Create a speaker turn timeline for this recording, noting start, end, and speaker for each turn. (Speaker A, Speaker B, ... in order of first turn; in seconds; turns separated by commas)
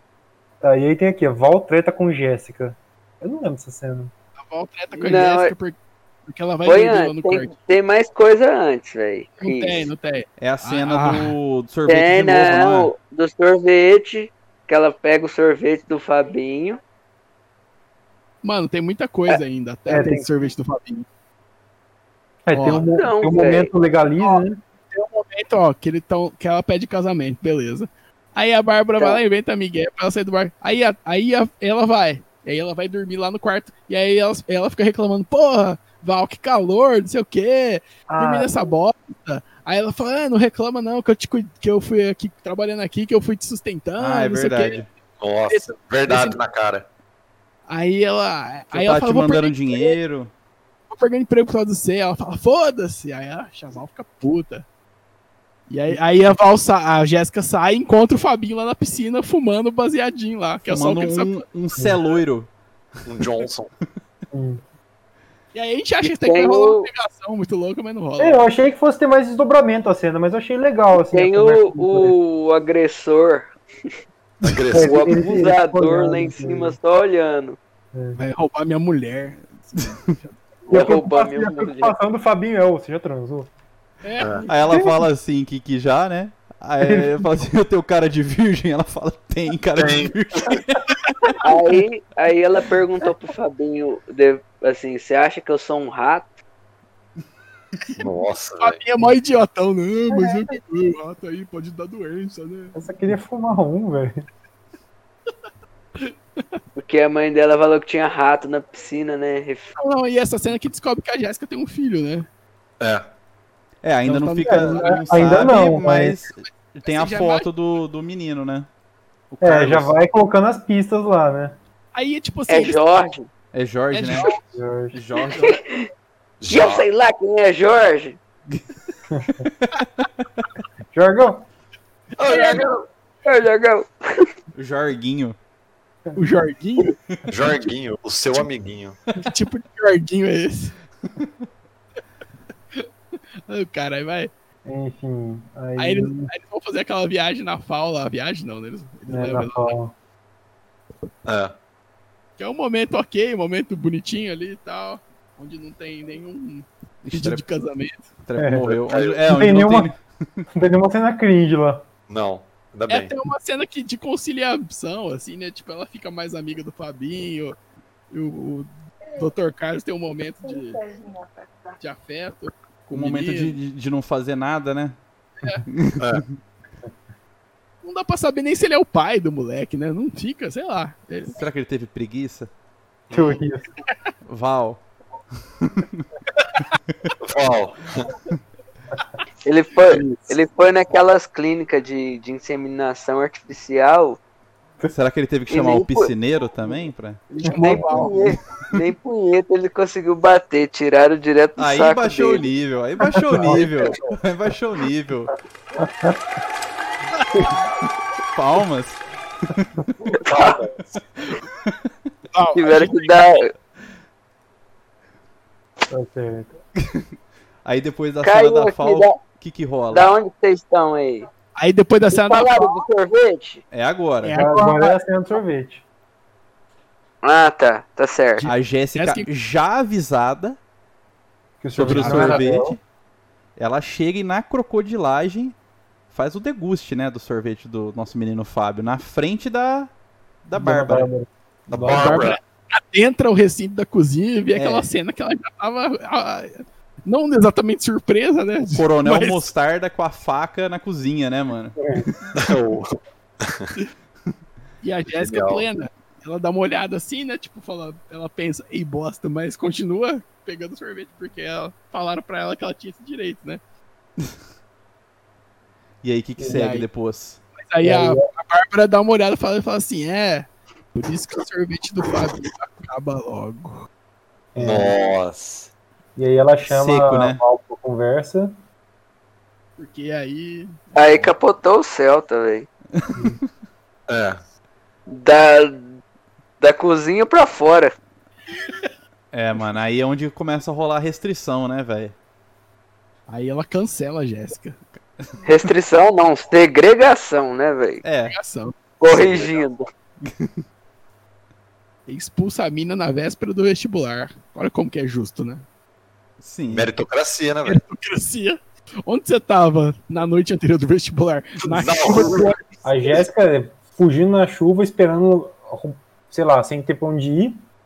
Speaker A: 0.6-4.1, Speaker B: 4.4-7.6, Speaker C: 5.0-5.5, Speaker C: 6.7-9.9, Speaker B: 9.4-11.3, Speaker D: 10.4-12.9, Speaker C: 11.9-16.8, Speaker B: 18.4-21.1, Speaker A: 19.9-20.3, Speaker A: 22.5-24.6, Speaker B: 22.5-22.9, Speaker C: 22.8-23.7, Speaker B: 24.2-44.8, Speaker A: 38.1-38.6, Speaker D: 44.0-44.9, Speaker E: 45.2-46.9, Speaker B: 45.5-46.4, Speaker B: 47.7-50.0, Speaker D: 48.7-50.3, Speaker B: 50.9-54.7, Speaker B: 55.7-61.5, Speaker D: 60.7-62.5, Speaker E: 63.1-63.7, Speaker A: 64.3-64.6, Speaker B: 65.5-68.5, Speaker C: 66.0-66.9, Speaker A: 68.2-72.2, Speaker C: 71.0-73.9, Speaker E: 74.4-75.2, Speaker A: 74.7-76.8, Speaker C: 74.8-77.6, Speaker A: 77.9-78.2, Speaker B: 78.2-80.4, Speaker C: 80.7-82.0, Speaker A: 80.7-83.5, Speaker B: 84.0-84.6, Speaker E: 84.2-84.5, Speaker D: 84.5-90.8, Speaker A: 86.8-87.3, Speaker E: 89.8-90.6, Speaker C: 91.4-96.3, Speaker E: 98.0-98.8, Speaker B: 98.6-102.8, Speaker A: 100.1-100.4, Speaker A: 102.8-104.2, Speaker B: 106.0-106.6, Speaker C: 106.8-109.7, Speaker B: 109.8-112.3, Speaker E: 112.8-113.1, Speaker D: 113.8-118.7, Speaker B: 114.0-115.5, Speaker A: 114.4-116.2, Speaker B: 116.8-117.5, Speaker D: 119.3-119.9, Speaker A: 119.4-121.6, Speaker B: 121.9-122.8, Speaker C: 122.5-123.3, Speaker D: 123.5-124.3, Speaker B: 123.9-124.4, Speaker A: 124.4-125.0, Speaker D: 124.9-125.6, Speaker C: 125.3-125.9, Speaker E: 126.4-126.8, Speaker C: 126.5-128.2, Speaker A: 129.1-129.4, Speaker D: 129.4-129.8, Speaker A: 130.9-131.5, Speaker E: 132.2-132.8, Speaker C: 132.2-132.7, Speaker B: 132.3-132.6, Speaker C: 133.2-134.3, Speaker D: 134.6-135.4, Speaker B: 136.2-137.0, Speaker E: 137.3-139.0, Speaker B: 139.2-140.8, Speaker B: 143.5-144.3, Speaker A: 144.7-146.3, Speaker B: 145.8-149.8, Speaker A: 149.1-149.9, Speaker E: 151.2-151.6, Speaker B: 152.4-158.1, Speaker D: 157.1-157.4, Speaker D: 158.2-160.5, Speaker A: 158.4-158.7, Speaker E: 158.9-159.2, Speaker A: 159.3-159.9, Speaker A: 160.6-161.8, Speaker E: 162.1-163.1, Speaker B: 162.9-167.6, Speaker B: 168.1-171.1, Speaker B: 171.8-173.6, Speaker D: 172.9-175.0, Speaker D: 175.7-176.4, Speaker B: 177.8-181.4, Speaker D: 181.3-182.5, Speaker E: 183.1-183.4, Speaker A: 183.1-183.7, Speaker D: 184.3-184.8, Speaker D: 185.6-186.1, Speaker E: 187.2-188.1, Speaker C: 189.4-194.2, Speaker D: 194.9-197.2, Speaker C: 195.5-196.1, Speaker B: 197.3-198.3, Speaker C: 197.4-202.5, Speaker A: 197.5-198.4, Speaker D: 201.6-205.3, Speaker A: 203.2-203.7, Speaker A: 205.8-206.2, Speaker B: 207.2-207.5, Speaker D: 208.3-209.9, Speaker C: 210.1-210.6, Speaker E: 210.2-210.8, Speaker B: 212.3-213.2, Speaker C: 212.6-213.5, Speaker A: 215.9-216.5, Speaker D: 217.7-220.1, Speaker C: 218.2-219.2, Speaker C: 219.9-221.3, Speaker B: 221.6-222.8, Speaker C: 222.1-223.6, Speaker D: 223.7-224.4, Speaker B: 224.2-225.0, Speaker A: 224.3-225.8, Speaker C: 227.2-228.5, Speaker B: 228.4-229.3, Speaker D: 228.5-230.6, Speaker A: 231.6-232.8, Speaker D: 231.8-232.8, Speaker B: 231.9-232.5, Speaker D: 233.6-235.6, Speaker D: 236.1-239.9, Speaker D: 240.4-241.1, Speaker A: 240.6-242.3, Speaker E: 241.7-242.4, Speaker B: 241.9-249.5, Speaker D: 244.6-244.9, Speaker D: 248.7-251.8, Speaker A: 251.8-252.1, Speaker E: 252.4-252.9, Speaker E: 253.4-253.7, Speaker B: 254.8-263.6, Speaker E: 255.3-255.7, Speaker D: 266.0-267.4, Speaker B: 266.5-266.9, Speaker B: 267.6-273.9, Speaker A: 267.8-268.2, Speaker A: 274.6-274.9, Speaker E: 274.6-275.7, Speaker A: 276.2-278.6, Speaker D: 276.7-277.4, Speaker B: 279.8-280.8, Speaker C: 280.9-282.7, Speaker D: 283.0-283.4, Speaker E: 284.1-284.4, Speaker C: 285.1-285.9, Speaker C: 286.6-287.9, Speaker D: 289.3-292.1, Speaker B: 293.3-294.8, Speaker C: 295.4-298.0, Speaker D: 298.0-298.4, Speaker B: 298.3-298.8, Speaker C: 299.0-299.9, Speaker E: 299.1-299.4, Speaker D: 300.3-300.5, Speaker B: 302.1-305.6, Speaker D: 306.4-306.9, Speaker E: 306.7-307.8, Speaker B: 307.6-312.6, Speaker E: 311.7-312.5, Speaker A: 312.8-317.6